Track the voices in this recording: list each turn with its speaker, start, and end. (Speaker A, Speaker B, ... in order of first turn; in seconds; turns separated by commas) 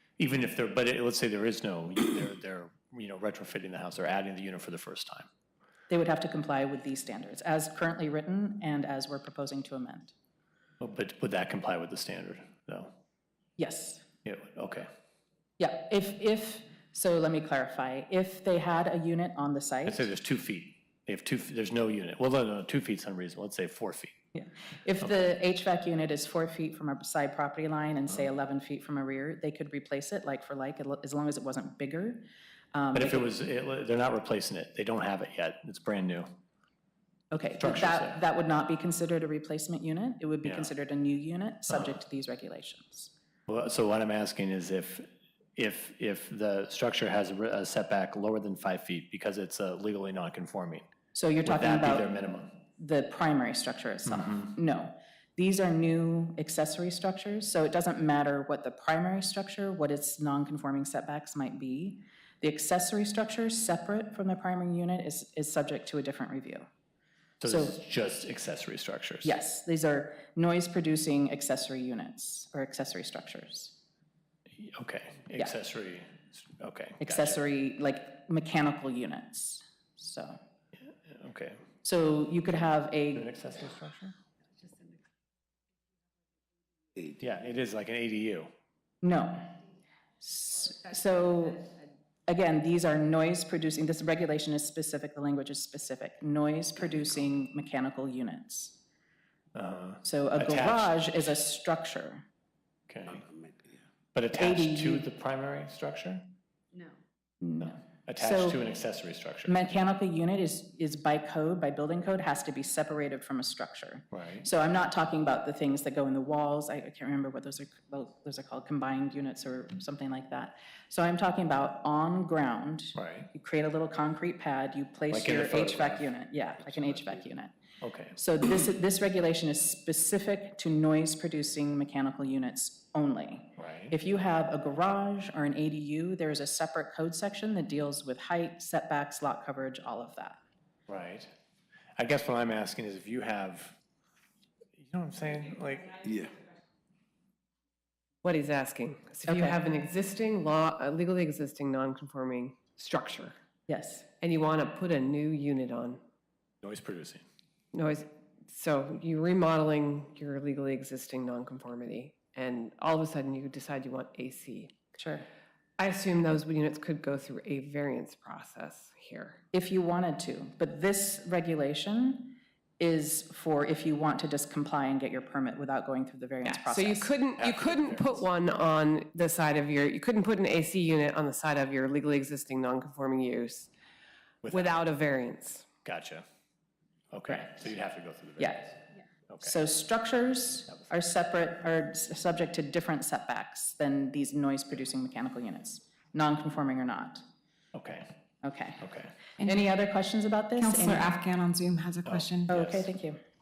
Speaker A: 0.2-5.3, Speaker B: 5.9-10.1, Speaker A: 10.8-12.9, Speaker B: 13.6-14.1, Speaker A: 14.2-14.9, Speaker B: 15.6-20.1, Speaker A: 19.9-24.1, Speaker B: 24.3-33.3, Speaker A: 33.0-36.3, Speaker B: 37.3-43.1, Speaker A: 37.6-38.2, Speaker A: 40.5-40.7, Speaker A: 43.5-50.9, Speaker B: 51.1-52.1, Speaker A: 51.5-52.5, Speaker B: 52.8-66.7, Speaker A: 54.1-54.5, Speaker A: 67.4-69.4, Speaker B: 67.4-67.8, Speaker B: 69.2-73.8, Speaker A: 74.6-77.4, Speaker B: 77.0-80.4, Speaker A: 81.1-81.6, Speaker B: 81.8-83.3, Speaker A: 83.2-84.2, Speaker A: 87.2-88.5, Speaker B: 89.0-89.6, Speaker B: 90.2-91.7, Speaker B: 92.3-98.8, Speaker A: 99.5-101.3, Speaker B: 100.0-102.2, Speaker A: 102.9-103.3, Speaker A: 104.1-106.3, Speaker B: 104.3-105.1, Speaker B: 107.4-108.6, Speaker A: 107.6-109.6, Speaker B: 109.5-127.5, Speaker A: 114.1-114.5, Speaker A: 123.0-123.3, Speaker A: 125.1-126.1, Speaker A: 126.7-127.2, Speaker A: 127.8-128.2, Speaker B: 128.2-140.4, Speaker A: 133.6-134.0, Speaker A: 140.9-141.3, Speaker A: 142.0-143.8, Speaker A: 144.8-146.2, Speaker C: 148.2-153.4, Speaker B: 149.3-149.6, Speaker B: 153.7-154.1, Speaker C: 154.2-156.0, Speaker A: 156.6-157.2, Speaker C: 157.7-164.7, Speaker B: 165.0-165.3, Speaker C: 165.8-169.4, Speaker B: 169.5-177.1, Speaker C: 176.4-183.7, Speaker A: 177.4-178.2, Speaker A: 184.4-184.8, Speaker C: 184.5-185.7, Speaker A: 185.8-186.2, Speaker A: 187.1-188.8, Speaker B: 187.3-187.6, Speaker B: 188.4-188.7, Speaker B: 189.4-197.2, Speaker A: 197.7-198.1, Speaker B: 198.4-201.1, Speaker A: 198.8-199.1, Speaker D: 199.4-199.6, Speaker D: 200.6-202.5, Speaker A: 202.1-202.9, Speaker B: 202.5-203.2